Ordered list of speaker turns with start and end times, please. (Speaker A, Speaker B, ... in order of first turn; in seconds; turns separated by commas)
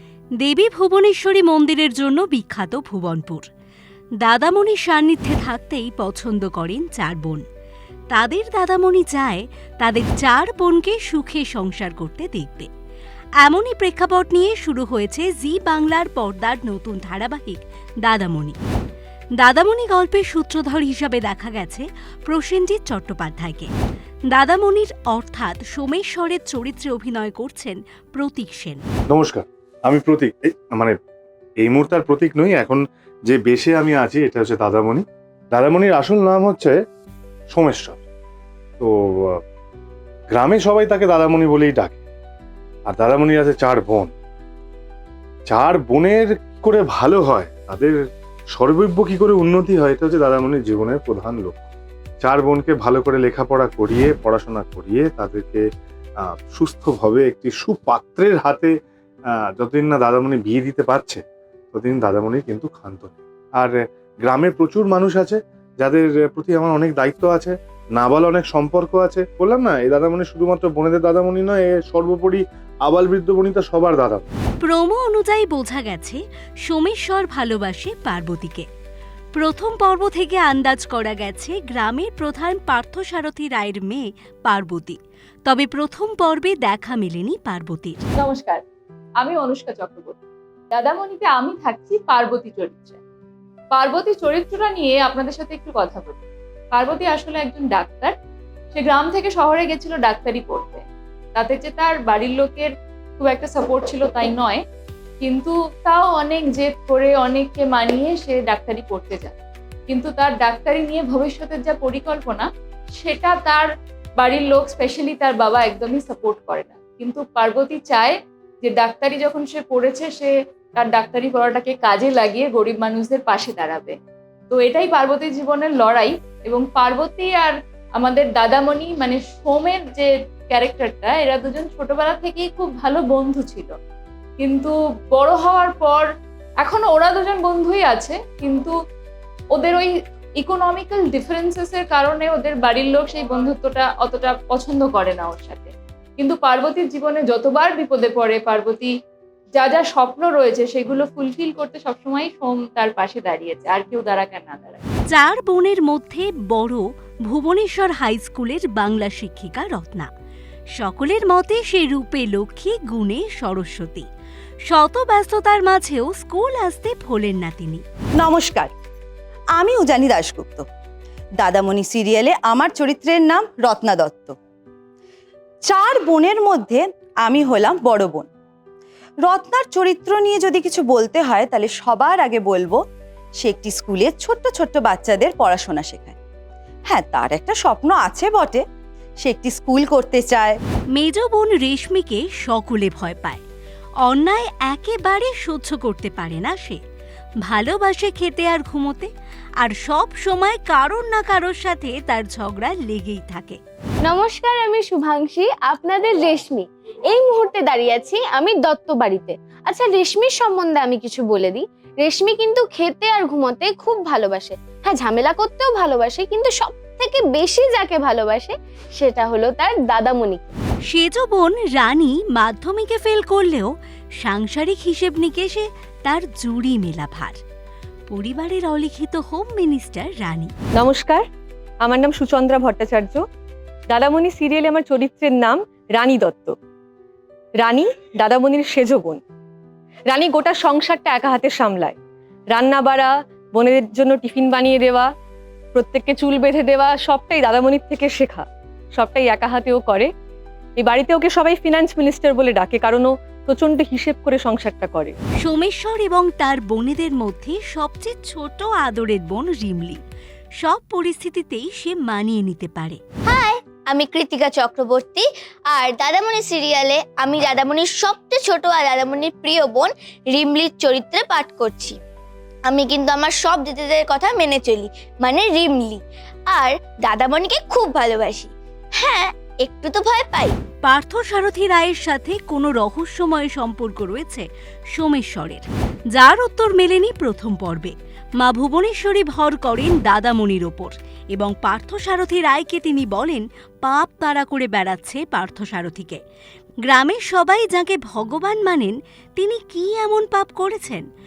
Speaker A: 0.4-3.4, Speaker A: 4.2-7.4, Speaker A: 8.1-12.7, Speaker A: 13.4-18.6, Speaker A: 19.4-23.7, Speaker A: 24.3-28.8, Speaker B: 29.1-30.9, Speaker B: 31.6-36.7, Speaker B: 37.5-38.0, Speaker B: 38.8-39.4, Speaker B: 40.3-42.0, Speaker B: 42.9-44.1, Speaker B: 45.5-47.9, Speaker B: 48.5-51.6, Speaker B: 52.2-55.6, Speaker B: 56.2-58.7, Speaker B: 59.5-61.2, Speaker B: 61.7-74.3, Speaker A: 74.6-78.7, Speaker A: 79.4-88.0, Speaker C: 88.2-88.6, Speaker C: 89.2-90.2, Speaker C: 90.7-93.0, Speaker C: 93.7-96.2, Speaker C: 96.7-98.1, Speaker C: 98.7-100.8, Speaker C: 101.3-104.6, Speaker C: 105.2-109.4, Speaker C: 109.9-113.7, Speaker C: 114.2-123.9, Speaker C: 124.5-133.7, Speaker C: 134.4-136.0, Speaker C: 136.6-138.7, Speaker C: 139.5-148.9, Speaker C: 149.6-154.8, Speaker A: 155.1-160.1, Speaker A: 160.7-164.1, Speaker A: 164.7-167.8, Speaker D: 168.2-168.7, Speaker D: 169.6-170.7, Speaker D: 171.4-174.3, Speaker D: 175.6-178.3, Speaker D: 179.2-182.8, Speaker D: 183.4-186.2, Speaker D: 186.9-188.6, Speaker D: 189.2-190.6, Speaker A: 190.9-193.4, Speaker A: 194.0-196.8, Speaker A: 197.4-199.1, Speaker A: 199.6-203.6, Speaker E: 204.0-220.6, Speaker A: 220.9-223.7, Speaker A: 224.2-227.4, Speaker A: 228.1-230.5, Speaker F: 230.8-231.2, Speaker F: 231.8-233.2, Speaker F: 233.9-236.6, Speaker F: 237.6-239.2, Speaker F: 240.1-241.9, Speaker F: 242.5-245.1, Speaker F: 245.7-250.1, Speaker F: 250.8-255.2, Speaker A: 255.4-260.0, Speaker A: 260.6-263.0, Speaker G: 263.2-272.0, Speaker G: 272.6-280.6, Speaker A: 280.8-296.2, Speaker A: 296.9-301.0